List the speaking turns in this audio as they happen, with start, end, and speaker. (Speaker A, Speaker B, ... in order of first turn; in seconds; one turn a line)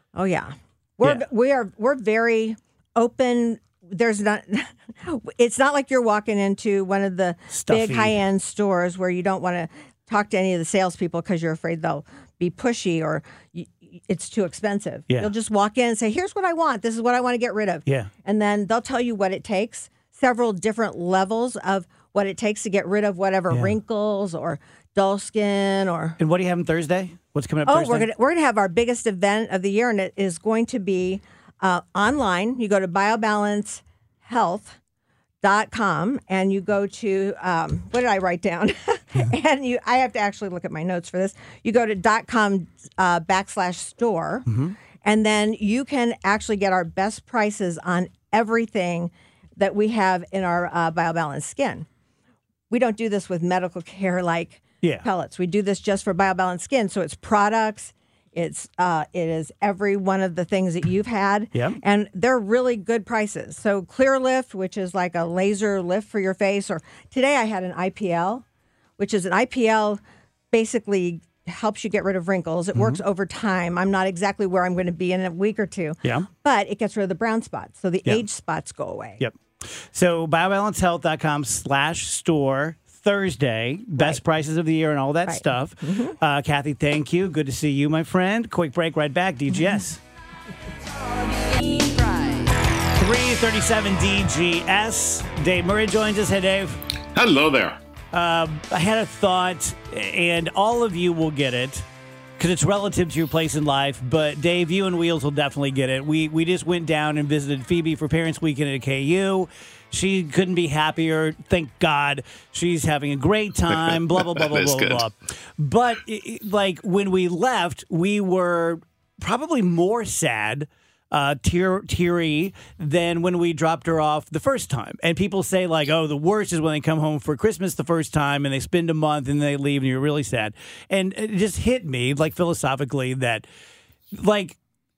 Speaker A: 0.1-26.2
Speaker B: 7.5-8.2
Speaker B: 17.9-18.1
Speaker B: 26.2-28.1
Speaker A: 27.6-34.8
Speaker A: 35.4-44.5
Speaker B: 44.5-44.8
Speaker A: 45.0-51.9
Speaker A: 52.7-68.4
Speaker B: 54.8-55.1
Speaker B: 61.5-61.8
Speaker A: 69.0-70.0
Speaker A: 70.5-79.2
Speaker B: 72.7-73.0
Speaker B: 76.0-76.3
Speaker B: 79.2-90.0
Speaker A: 84.0-84.2
Speaker A: 85.2-86.2
Speaker B: 93.0-96.8
Speaker C: 97.2-97.8
Speaker B: 98.1-101.9
Speaker B: 102.4-133.5
Speaker C: 113.7-115.1
Speaker B: 134.1-134.6